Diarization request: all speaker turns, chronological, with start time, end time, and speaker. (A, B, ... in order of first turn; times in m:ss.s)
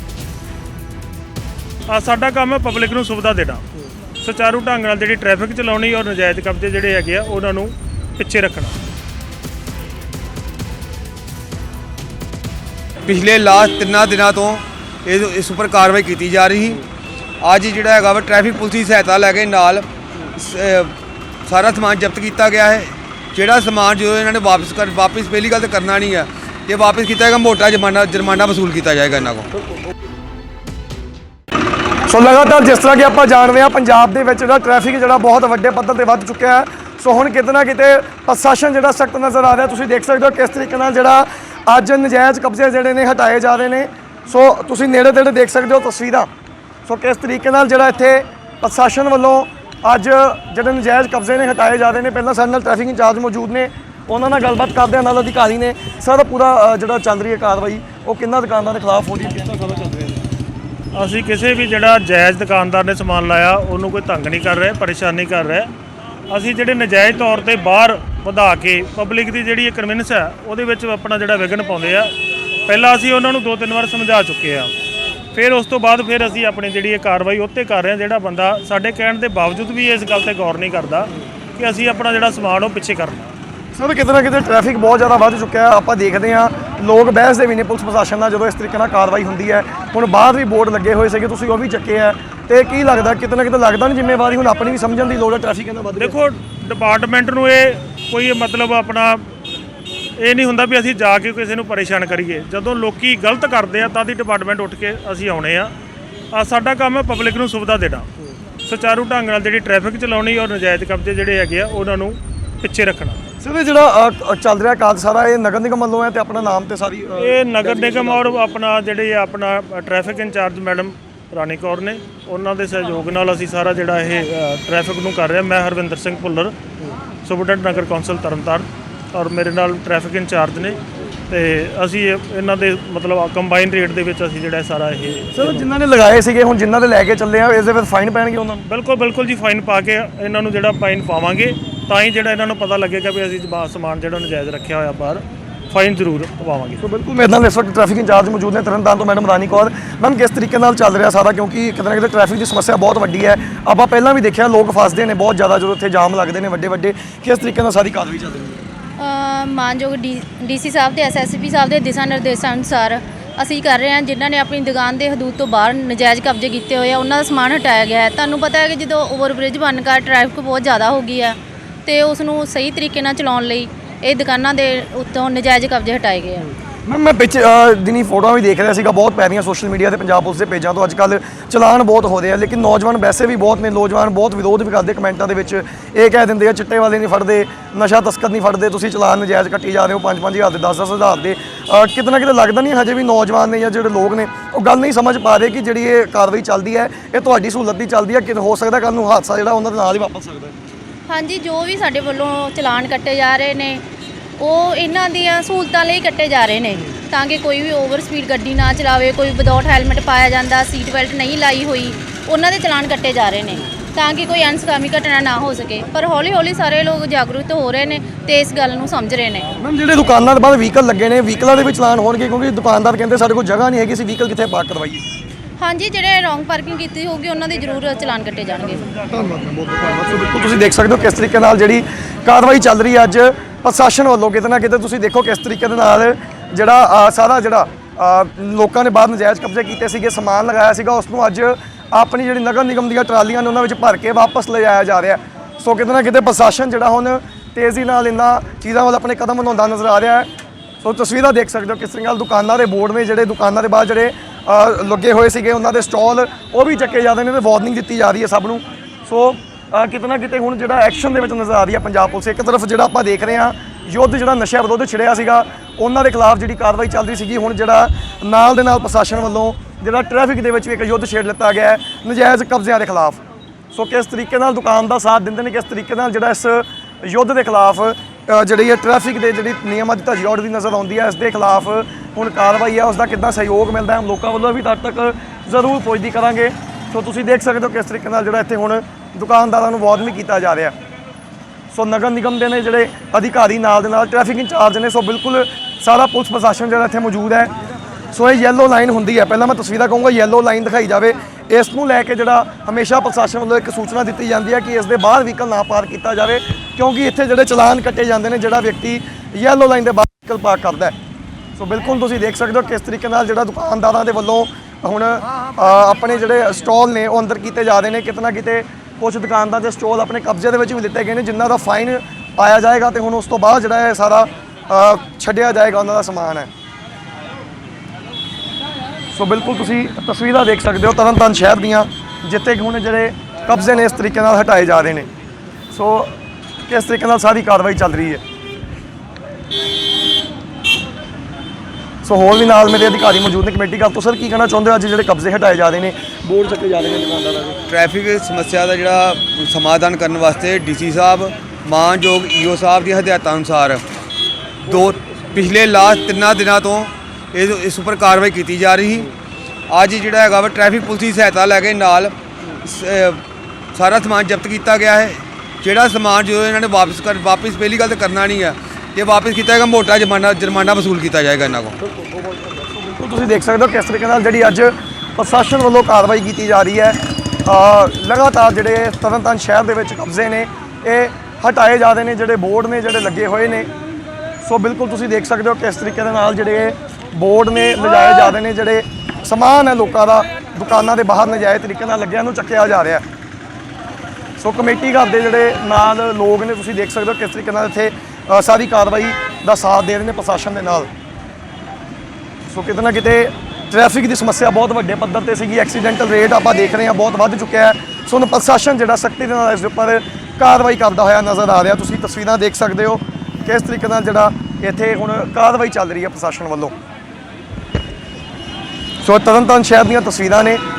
0:01.9-0:03.6 A
0:04.2-0:08.8 A
0:13.0-0:16.8 B
0:17.4-0:20.9 B
0:21.4-0:29.5 B
0:32.1-0:46.3 C
0:46.8-1:00.2 C
1:00.9-1:05.7 A
1:06.3-1:12.1 A
1:12.7-1:14.7 A
1:15.3-1:23.3 A
1:23.7-1:36.2 C
1:36.0-1:39.2 A
1:40.2-1:45.7 A
1:46.3-1:48.1 A
1:48.6-1:53.2 A
1:53.4-1:58.2 C
1:57.2-2:06.5 A
2:07.2-2:15.6 A
2:15.3-2:18.6 C
2:18.7-2:26.8 A
2:26.8-2:38.6 C
2:39.0-2:56.5 D
2:56.8-3:20.6 C
3:21.1-3:23.8 D
3:24.4-3:39.5 D
3:39.6-3:45.0 C
3:45.6-3:48.9 D
3:49.1-4:10.3 C
4:10.8-4:33.2 C
4:33.7-4:50.7 C
4:51.7-4:57.5 C
4:58.1-5:10.9 C
5:11.6-5:26.5 C
5:29.1-5:35.1 C
5:35.7-5:36.2 C
5:36.7-5:38.2 C
5:42.0-5:47.6 C
5:47.7-5:53.8 B
5:54.6-5:59.1 B
5:59.7-6:03.2 B
6:03.7-6:11.8 B
6:12.6-6:23.7 C
6:24.4-6:33.0 C
6:34.4-6:40.9 C
6:42.5-6:56.7 C
6:59.0-7:00.6 C